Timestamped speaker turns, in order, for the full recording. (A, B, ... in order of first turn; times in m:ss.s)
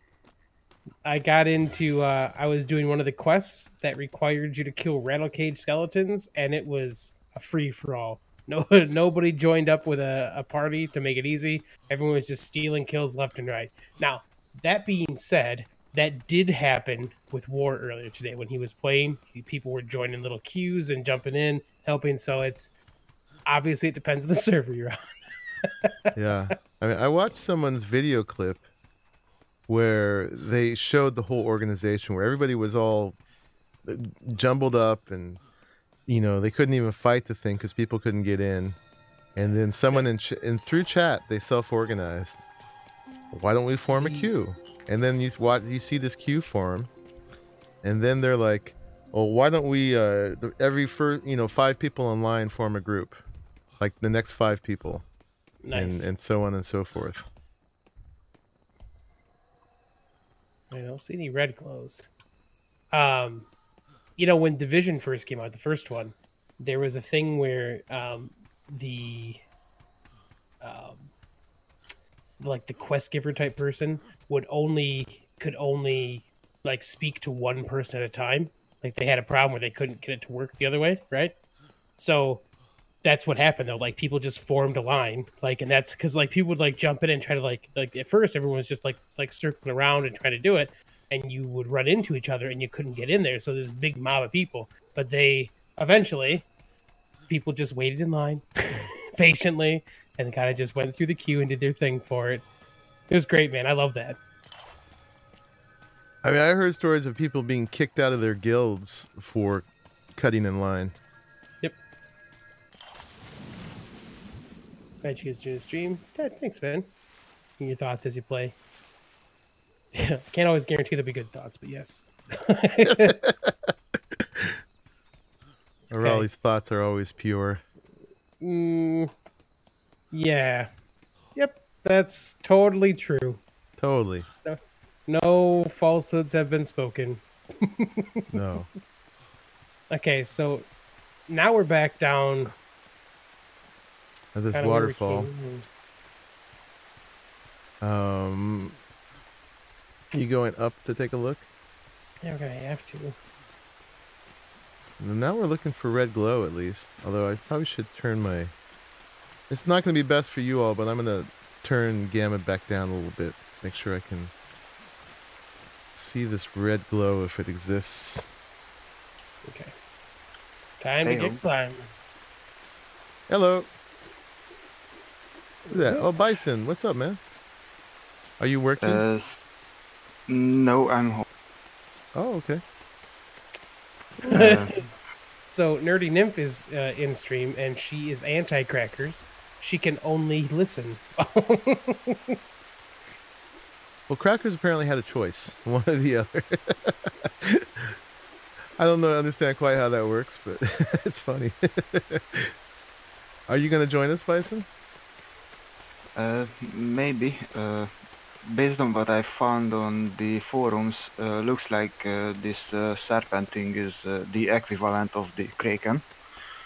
0:01.0-0:22.7 A
0:23.5-0:25.0 A
0:25.6-0:26.5 A
0:26.2-0:28.6 B
0:29.7-0:33.2 B
0:33.9-0:35.4 B
0:36.1-0:38.8 B
0:39.4-0:42.4 B
0:43.3-0:46.9 B
0:43.9-0:44.3 A
0:47.8-0:53.2 B
0:53.8-0:55.0 B
0:55.6-0:56.1 A
0:55.7-0:57.3 B
1:00.7-1:02.1 A
1:02.9-1:03.5 A
1:04.2-1:09.4 A
1:10.6-1:11.1 A
1:12.4-1:21.3 A
1:22.0-1:22.4 A
1:23.0-1:36.5 A
1:37.3-1:42.4 A
1:43.1-1:44.2 A
1:46.2-1:51.0 B
1:55.0-1:56.9 A
1:57.6-1:58.6 A
1:59.9-2:03.2 A
2:02.9-2:04.6 B
2:05.9-2:07.6 B
2:06.0-2:06.3 A
2:08.4-2:09.1 A
2:10.1-2:10.7 A
2:11.4-2:13.4 A
2:13.8-2:14.3 B
2:14.3-2:18.3 A
2:18.3-2:18.7 B
2:19.9-2:20.7 A
2:21.3-2:22.5 A
2:24.4-2:25.3 B
2:24.5-2:25.7 A
2:27.8-2:28.8 B
2:30.1-2:31.5 B
2:32.2-2:33.2 A
2:35.0-2:38.5 B
2:39.5-2:44.3 B
2:45.9-2:48.3 B
2:49.4-2:49.7 A
2:50.8-2:51.9 A
2:51.0-2:51.4 C
2:53.3-2:53.7 B
2:55.7-2:56.1 A
2:55.7-2:57.2 B
2:58.4-2:59.0 B
2:58.8-2:59.4 C
3:00.3-3:01.2 C
3:02.2-3:02.6 B
3:04.3-3:04.8 A
3:04.3-3:04.7 C
3:05.5-3:12.4 A
3:14.1-3:18.0 B
3:18.8-3:22.5 B
3:23.5-3:24.7 B
3:26.2-3:27.9 C
3:28.5-3:36.0 C